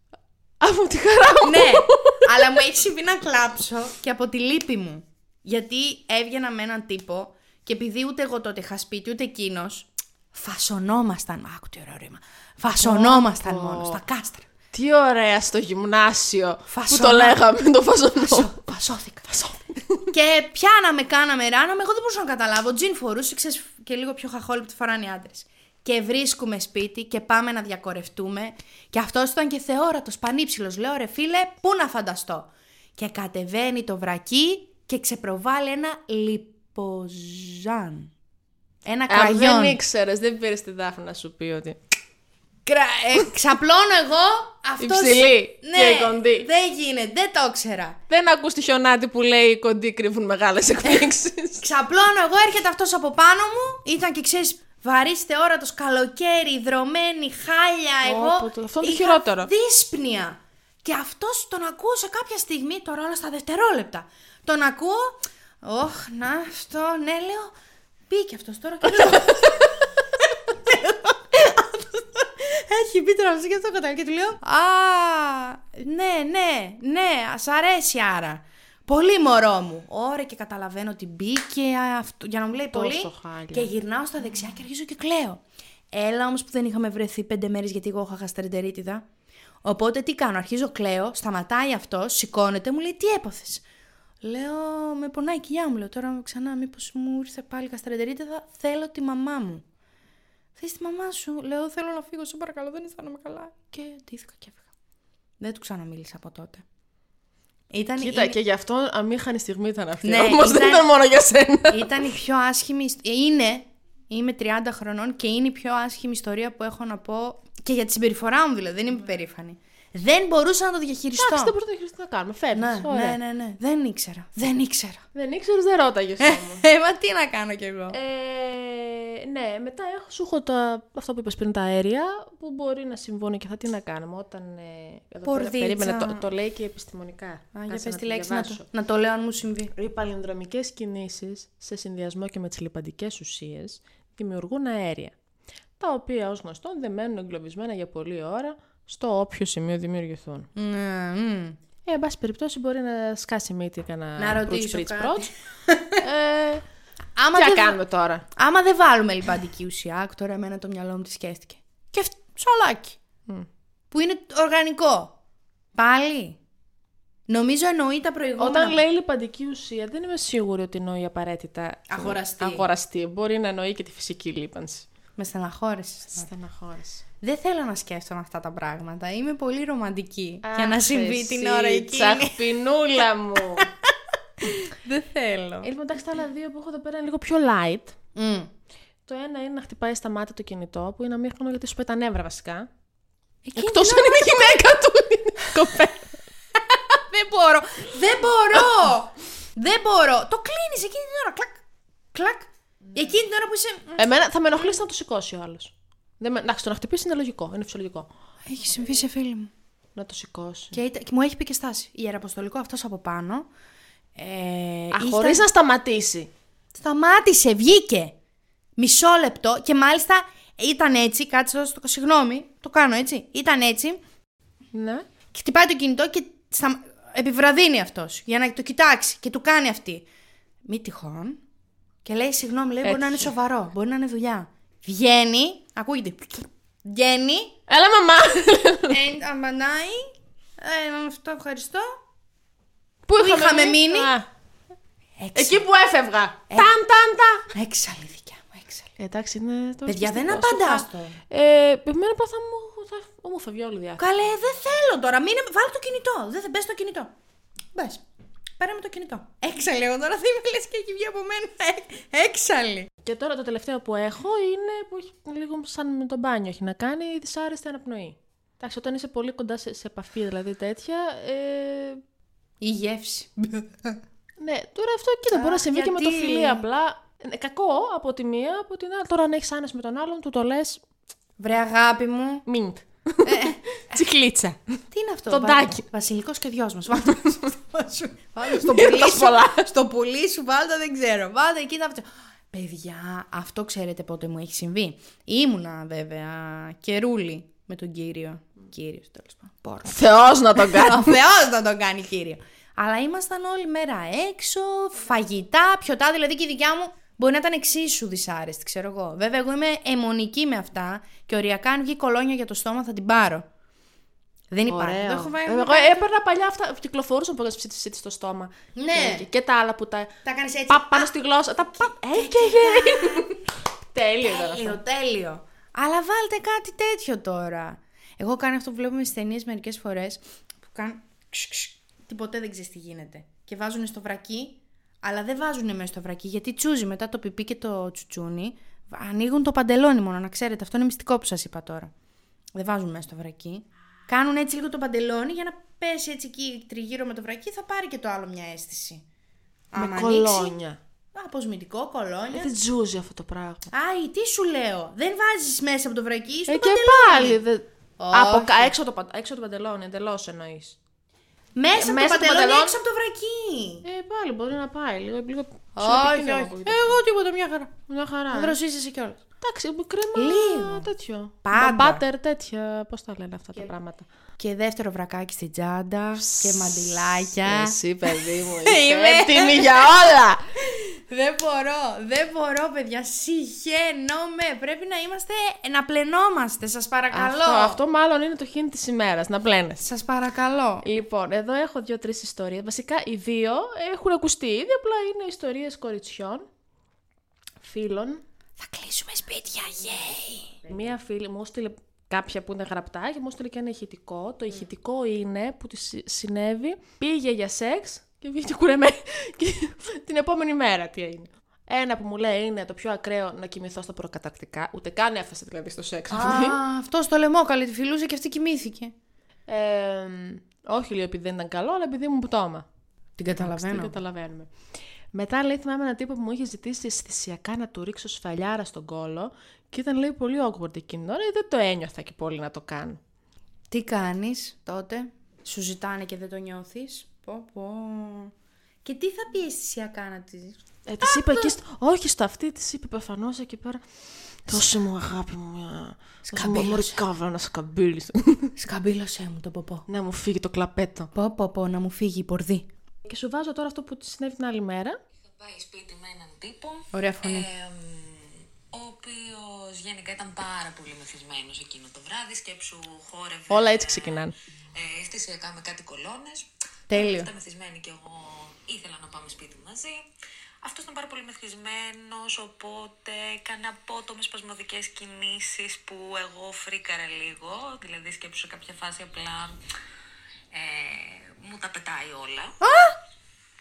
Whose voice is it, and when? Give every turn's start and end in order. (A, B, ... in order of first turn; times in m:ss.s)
0:00.6-0:02.6 A
0:01.4-0:14.5 B
0:12.8-0:14.0 A
0:14.7-0:18.6 A
0:16.7-0:17.4 B
0:18.2-0:19.3 B
0:19.3-0:20.1 A
0:20.1-0:38.1 B
0:38.8-0:39.8 B
0:39.1-0:41.8 A
0:42.6-0:48.0 B
0:44.8-0:46.5 A
0:48.1-0:51.7 A
0:50.8-0:51.1 B
0:51.6-1:07.5 B
0:58.0-0:59.5 A
1:08.1-1:29.0 B
1:22.7-1:23.7 A
1:29.6-1:33.6 B
1:34.2-1:39.6 B
1:40.6-1:44.6 B
1:45.4-1:46.6 B
1:47.7-1:48.4 B
1:48.0-1:52.0 A
1:50.0-1:50.9 B
1:51.7-2:01.5 B
2:01.2-2:03.2 A
2:02.5-2:05.0 B
2:05.1-2:06.6 A
2:06.2-2:08.0 B
2:07.9-2:18.6 A
2:15.2-2:16.2 B
2:17.5-2:19.7 B
2:19.7-2:25.1 A
2:25.8-2:30.5 A
2:30.5-2:31.6 B
2:31.8-2:35.3 A
2:34.2-2:36.0 B
2:36.0-2:36.6 A
2:37.2-2:37.8 B
2:37.3-2:38.2 A
2:38.3-2:43.0 B
2:43.9-2:45.2 B
2:45.7-2:46.4 B
2:47.3-2:48.8 B
2:48.4-2:54.9 A
2:51.9-2:52.6 B
2:55.2-2:56.3 B
2:56.1-2:57.0 A
2:57.2-3:02.4 B
3:00.4-3:03.7 A
3:03.6-3:03.9 B
3:04.4-3:05.7 B
3:05.6-3:08.0 A
3:08.1-3:08.5 B
3:09.1-3:12.7 A
3:13.4-3:14.6 B
3:13.6-3:16.1 A
3:16.7-3:21.6 B
3:22.1-3:24.1 B
3:24.0-3:28.1 A
3:28.4-3:29.5 B
3:30.0-3:30.8 A
3:30.7-3:33.5 B
3:34.2-3:35.4 B
3:34.9-3:36.3 A
3:36.7-3:38.1 B
3:38.8-3:44.0 B
3:44.7-3:45.0 A
3:45.3-3:50.0 B
3:50.6-3:51.4 B
3:52.0-3:57.6 B
3:52.8-3:53.3 A
3:57.7-3:59.0 A
3:58.9-4:02.0 B
4:03.1-4:04.2 A
4:03.2-4:04.1 B
4:05.2-4:05.6 B
4:05.3-4:07.5 A
4:07.5-4:08.9 B
4:09.0-4:14.0 A
4:09.8-4:11.2 B
4:14.0-4:17.1 B
4:17.7-4:18.0 B
4:18.6-4:22.9 B
4:23.0-4:32.0 A
4:32.6-4:34.0 B
4:34.4-4:40.8 A
4:35.3-4:36.6 B
4:41.4-4:42.4 B
4:42.4-4:44.5 A
4:43.2-4:44.2 B
4:44.9-5:13.5 B
4:45.3-4:45.8 A
4:48.4-4:49.7 A
4:59.8-5:01.2 A
5:14.5-5:16.0 B
5:14.7-5:20.1 A
5:18.8-5:19.2 B
5:20.2-5:21.1 B
5:20.7-5:23.3 A
5:21.8-5:23.4 B
5:23.9-5:24.8 A
5:24.2-5:41.9 B
5:42.5-5:49.0 B
5:49.7-5:50.6 B
5:49.7-5:50.8 A
5:51.1-5:52.5 B
5:52.3-5:53.7 A
5:53.7-5:57.4 B
5:56.5-6:00.8 A
5:58.0-5:58.7 B
6:01.6-6:03.8 B
6:01.7-6:02.8 A
6:03.8-6:07.0 A
6:05.8-6:07.7 B
6:07.9-6:08.6 A
6:08.3-6:09.2 B
6:09.4-6:14.1 A
6:10.1-6:10.9 B
6:11.4-6:12.0 B
6:14.4-6:27.8 B
6:16.2-6:20.4 A
6:27.1-6:29.8 A
6:29.8-6:30.8 B
6:30.8-6:36.4 A
6:37.6-6:38.2 A
6:38.6-6:40.7 B
6:40.6-6:56.6 A
6:56.1-6:58.9 B
6:59.5-7:02.6 A
7:03.2-7:03.9 B
7:03.4-7:04.5 A
7:05.1-7:13.0 A
7:13.7-7:18.3 B
7:18.8-7:21.5 B
7:20.8-7:23.8 A
7:24.4-7:28.5 A
7:24.5-7:24.8 B
7:26.2-7:27.0 B
7:28.6-7:29.8 B
7:29.9-7:31.1 A
7:31.1-7:32.7 B
7:33.0-7:35.0 A
7:35.4-7:50.0 C
7:36.9-7:37.5 B
7:43.5-7:44.3 A
7:46.9-7:47.3 B
7:50.6-7:59.6 C
8:00.5-8:02.6 C
8:02.6-8:03.0 B